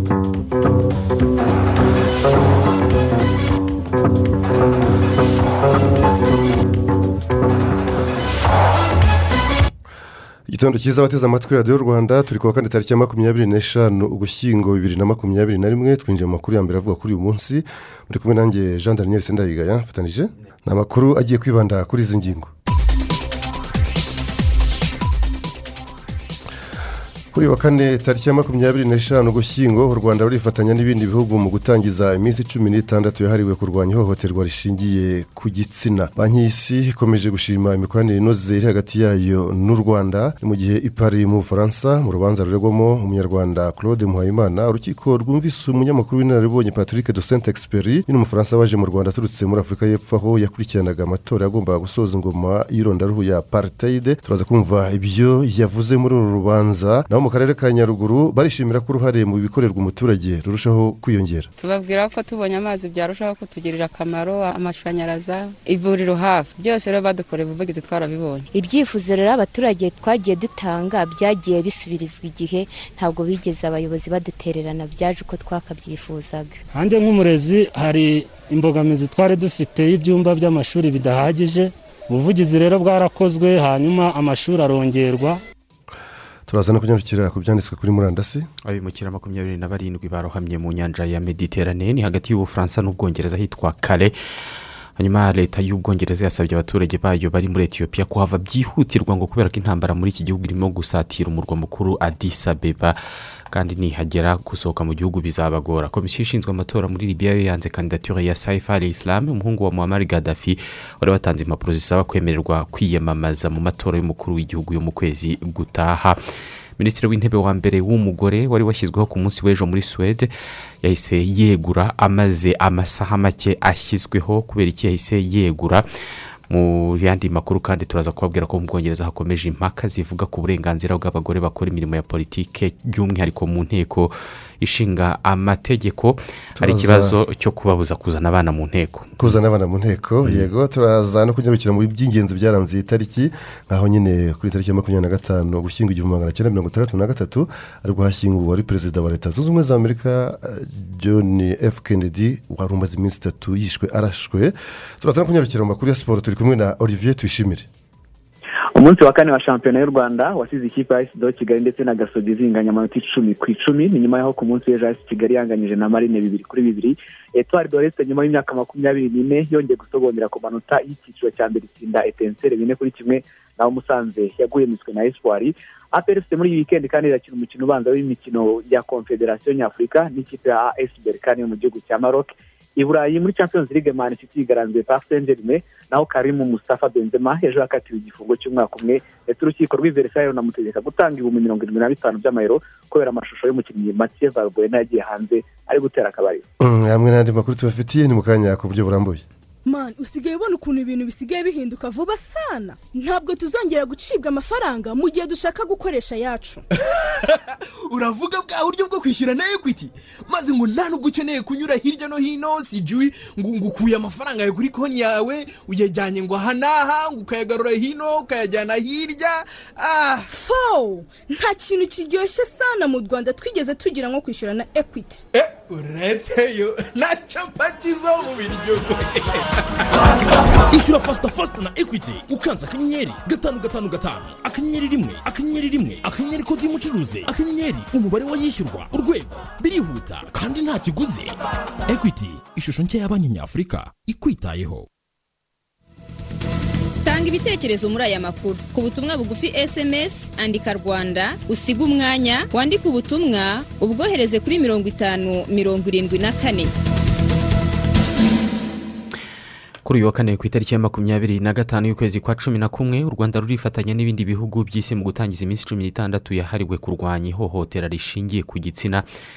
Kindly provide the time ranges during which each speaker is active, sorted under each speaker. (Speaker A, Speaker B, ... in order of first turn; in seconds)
Speaker A: 10.5-22.5, 27.3-61.5, 86.5-88.5, 136.6-137.2, 139.2-157.7, 196.6-199.2
Speaker B: 61.6-68.4
Speaker C: 68.5-76.6
Speaker D: 76.7-85.4
Speaker E: 88.7-94.1, 95.0-103.0, 103.5-116.2, 116.8-120.3, 120.8-125.8, 126.5-139.3, 259.9-269.1
Speaker F: 158.8-196.5
Speaker G: 199.7-206.6, 220.3-225.2
Speaker H: 207.2-220.3, 225.3-229.4
Speaker I: 230.7-244.9
Speaker J: 247.1-256.7